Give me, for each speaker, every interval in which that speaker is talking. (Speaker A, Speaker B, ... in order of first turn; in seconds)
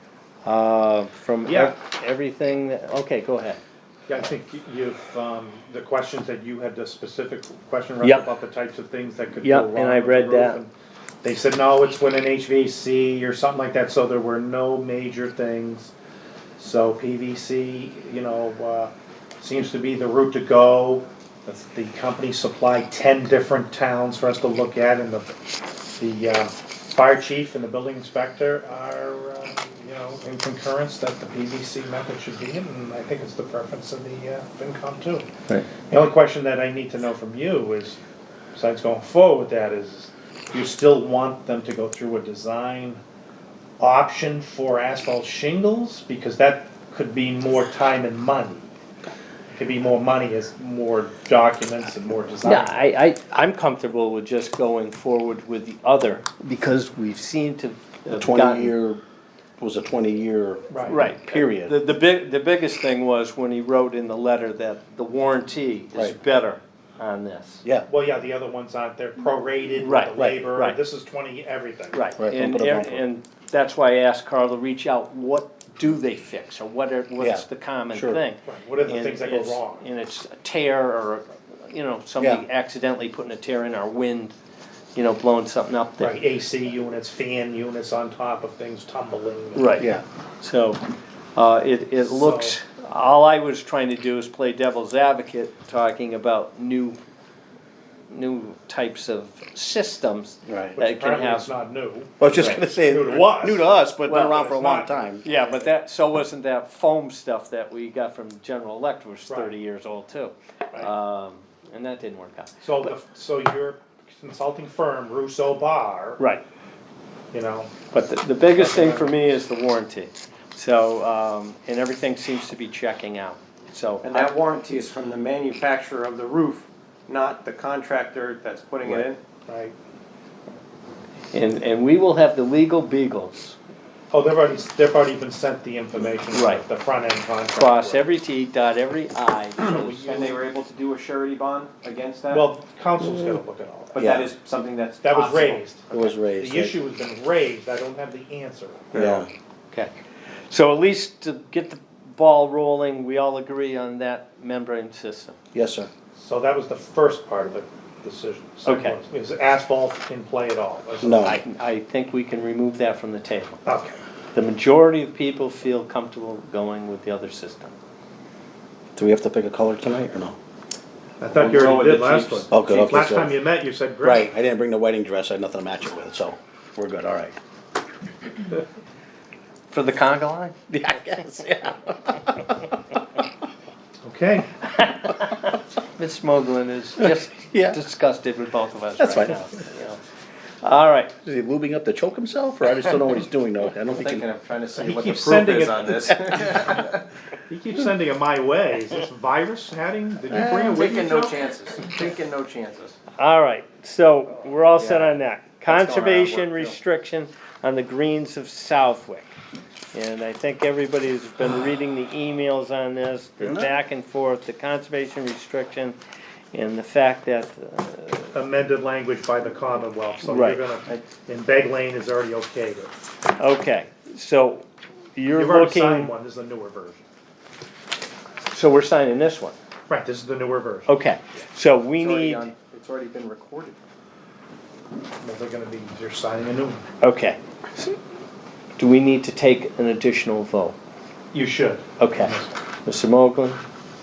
Speaker A: 0.5-3.6, 8.0-8.3, 9.4-10.6, 52.4-58.7, 60.9-67.6, 69.8-70.8, 71.9-84.3, 85.0-86.2, 89.5-89.9, 90.4-90.8, 91.3-97.0, 98.1-101.5, 102.2-102.6, 104.1-104.5, 105.2-112.9, 117.9-124.3, 131.3-133.6, 136.3-136.7, 137.5-140.4, 150.5-155.3, 158.6-158.9, 161.2-163.6, 164.3-167.7, 179.7-181.0, 184.8-190.0, 190.6-191.1, 203.2-209.3, 209.9-216.0, 216.5-218.3, 220.2-220.6, 223.4-224.6, 225.2-226.1, 228.5-229.6, 230.9-232.5, 237.0-237.9, 238.8-240.8, 242.0-243.6
Speaker B: 1.5-1.7, 4.1-10.7, 11.2-15.9, 16.6-25.3, 26.0-35.3, 35.9-38.0, 38.5-43.0, 43.8-48.7, 49.5-52.8, 60.7-61.0, 67.9-72.1, 78.5-79.9, 86.0-89.8, 92.0-92.6, 100.8-103.7, 104.2-105.5, 109.3-109.5, 112.6-116.2, 117.3-117.8, 118.5-119.1, 129.5-129.8, 134.1-138.1, 142.3-144.0, 145.0-149.2, 156.2-161.4, 163.6-164.0, 171.2-174.3, 184.0-184.5, 194.8-196.0, 197.5-201.4, 218.3-222.9, 225.3-227.0, 229.9-230.9, 235.2-236.8, 241.3-242.5
Speaker C: 58.1-59.0, 59.6-61.8, 72.2-73.0, 77.2-78.2, 89.8-90.0, 100.5-100.8, 102.2-105.2, 144.0-144.3, 145.9-146.8, 148.9-149.3, 155.5-155.9, 161.0-161.4, 168.9-170.4, 172.5-173.4, 174.0-177.4, 180.7-182.6, 187.0-187.8, 189.0-189.5, 191.2-194.2, 196.1-196.3, 200.3-200.8, 213.4-213.7
Speaker D: 124.0-129.2, 139.6-142.5, 143.9-145.6, 171.3-172.6, 193.8-197.0, 200.5-203.0, 204.8-205.1, 205.7-206.8, 232.0-233.8